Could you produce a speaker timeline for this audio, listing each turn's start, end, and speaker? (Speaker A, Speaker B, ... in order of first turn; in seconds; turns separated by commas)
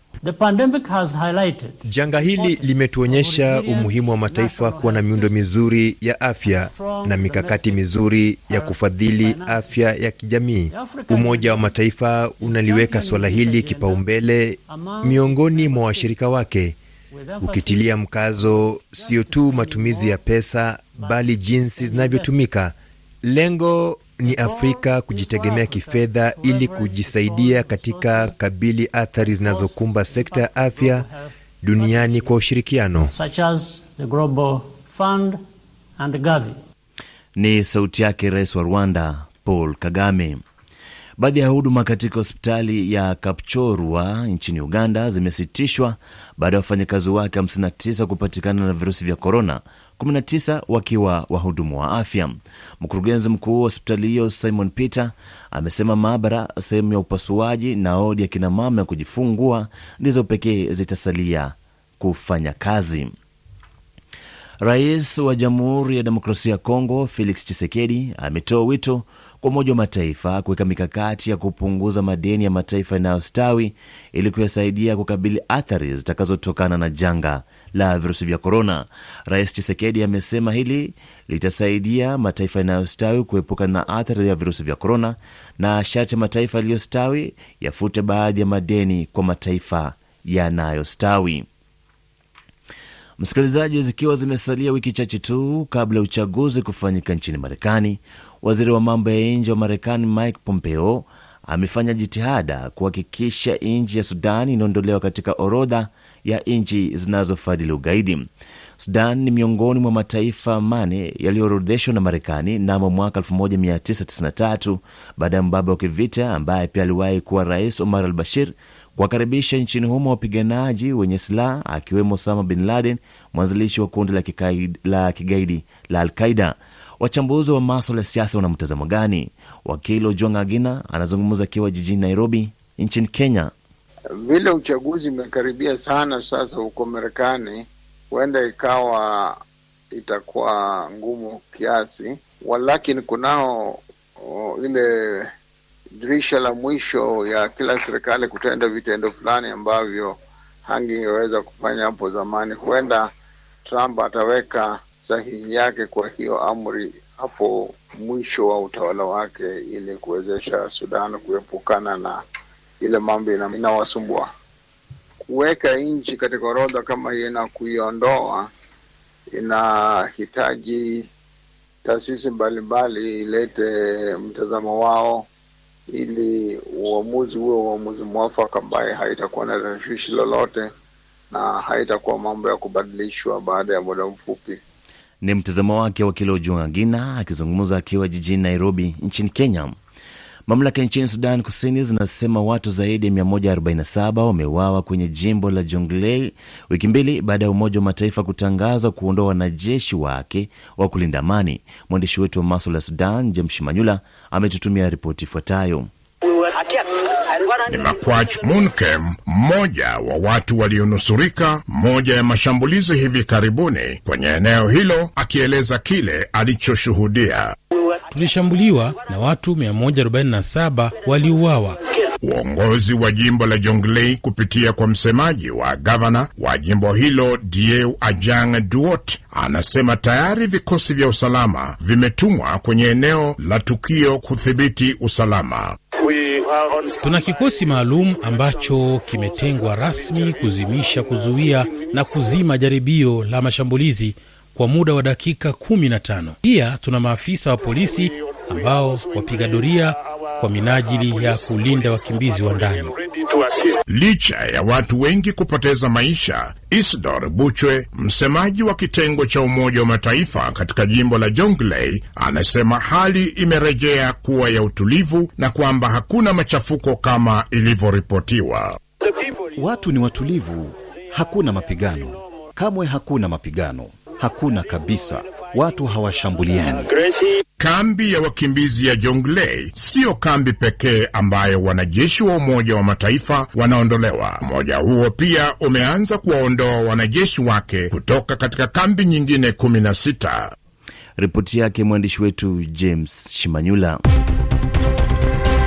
Speaker A: 0.2-5.4, Speaker B: 1.8-16.8, Speaker A: 6.4-7.8, Speaker A: 8.5-9.8, Speaker A: 10.7-11.7, Speaker A: 12.4-14.1, Speaker A: 14.7-16.2, Speaker A: 17.1-18.0, Speaker B: 17.4-31.1, Speaker A: 18.9-20.2, Speaker A: 21.0-22.4, Speaker A: 24.2-28.4, Speaker A: 29.2-32.5, Speaker B: 31.6-33.1, Speaker A: 33.1-35.4, Speaker A: 36.0-36.5, Speaker C: 37.4-40.4, Speaker C: 41.2-63.1, Speaker C: 64.6-91.4, Speaker C: 93.2-108.2, Speaker C: 108.8-133.5, Speaker D: 134.2-139.4, Speaker D: 139.9-145.3, Speaker D: 146.0-153.1, Speaker D: 153.6-162.2, Speaker D: 162.8-164.3, Speaker D: 165.3-168.5, Speaker D: 169.3-171.1, Speaker D: 171.8-175.3, Speaker D: 175.9-180.7, Speaker D: 181.3-184.6, Speaker C: 185.2-189.7, Speaker C: 190.5-205.9, Speaker E: 207.7-217.5, Speaker F: 218.1-221.8, Speaker E: 222.2-235.8, Speaker F: 236.9-253.0, Speaker E: 253.9-268.8, Speaker G: 269.6-276.9, Speaker E: 277.6-290.5, Speaker C: 291.2-294.0